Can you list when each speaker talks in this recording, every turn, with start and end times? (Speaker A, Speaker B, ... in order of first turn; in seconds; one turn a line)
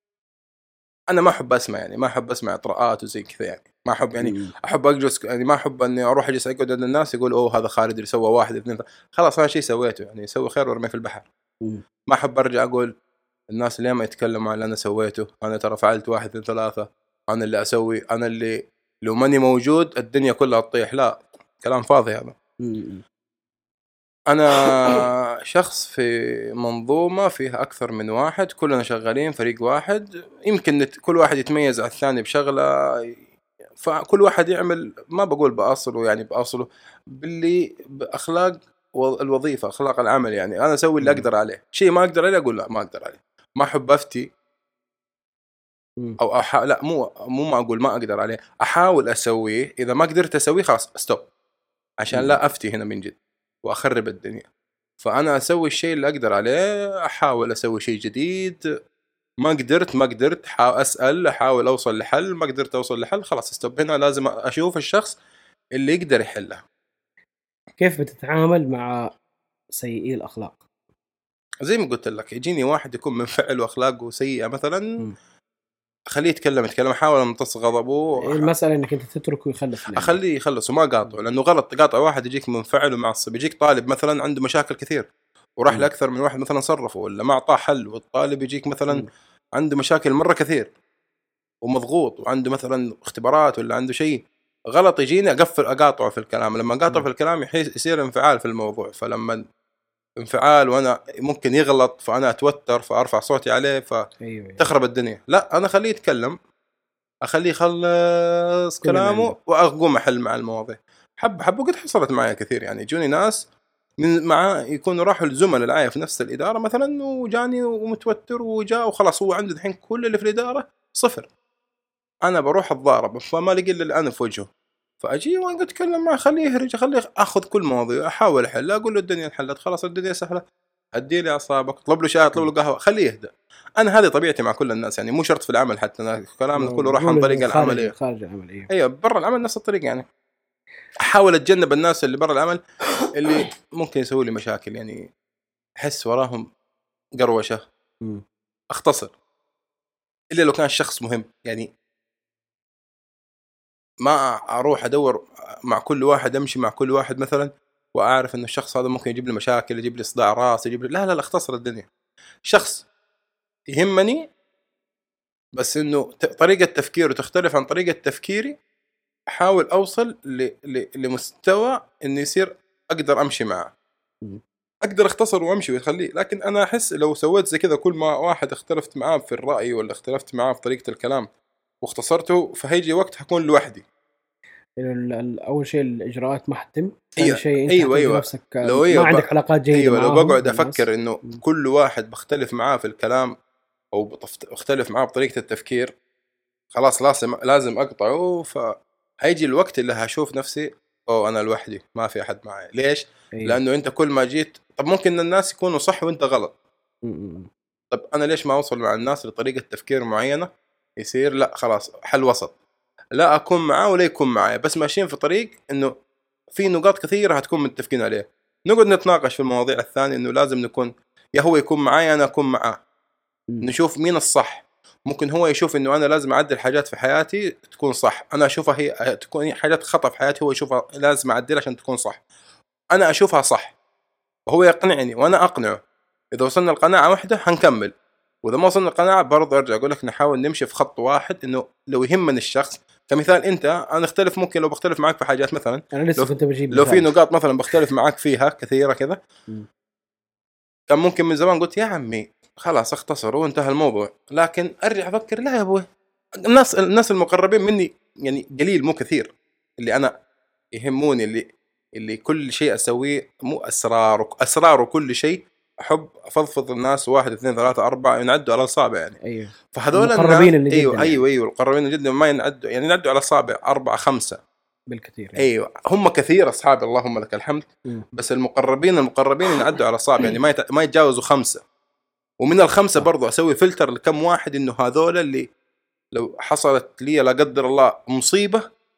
Speaker A: 1.1-11.3
Speaker B: 4.2-4.5
Speaker A: 12.1-12.9
Speaker A: 13.5-22.4
Speaker B: 22.6-23.0
Speaker A: 24.3-33.2
Speaker A: 33.8-44.3
Speaker B: 41.0-41.3
Speaker A: 46.2-51.3
Speaker A: 52.0-54.5
Speaker B: 52.1-52.4
Speaker A: 55.0-58.6
Speaker A: 59.4-65.2
Speaker A: 65.8-66.6
Speaker B: 67.8-69.1
Speaker B: 69.7-70.6
Speaker A: 71.6-75.0
Speaker A: 76.1-78.5
Speaker B: 78.2-80.2
Speaker A: 80.0-90.7
Speaker A: 91.7-99.4
Speaker A: 100.2-104.1
Speaker B: 104.2-104.7
Speaker A: 104.6-106.4
Speaker A: 107.2-113.5
Speaker B: 108.8-109.3
Speaker A: 114.0-121.3
Speaker A: 122.2-124.5
Speaker A: 125.0-130.4
Speaker A: 131.0-137.9
Speaker B: 136.5-138.7
Speaker A: 138.7-140.1
Speaker A: 141.0-142.6
Speaker A: 143.1-145.1
Speaker A: 145.8-146.5
Speaker A: 147.2-147.6
Speaker A: 148.7-149.1
Speaker A: 150.3-151.7
Speaker A: 154.0-161.9
Speaker A: 162.5-162.9
Speaker A: 163.7-164.2
Speaker A: 165.6-168.6
Speaker A: 169.3-173.7
Speaker A: 174.8-181.3
Speaker A: 181.8-183.8
Speaker B: 184.8-191.4
Speaker A: 187.2-193.3
Speaker A: 193.9-195.9
Speaker A: 196.7-206.6
Speaker B: 203.3-203.6
Speaker B: 207.0-207.5
Speaker A: 207.9-212.5
Speaker A: 213.2-215.9
Speaker A: 216.5-222.8
Speaker A: 223.6-232.2
Speaker A: 232.9-233.8
Speaker A: 234.5-235.8
Speaker A: 236.3-237.9
Speaker A: 238.4-249.2
Speaker B: 245.9-247.1
Speaker A: 250.9-260.1
Speaker A: 260.7-269.2
Speaker B: 269.2-271.2
Speaker A: 269.7-274.4
Speaker B: 274.9-275.5
Speaker A: 275.4-281.6
Speaker A: 282.4-285.5
Speaker A: 286.1-288.6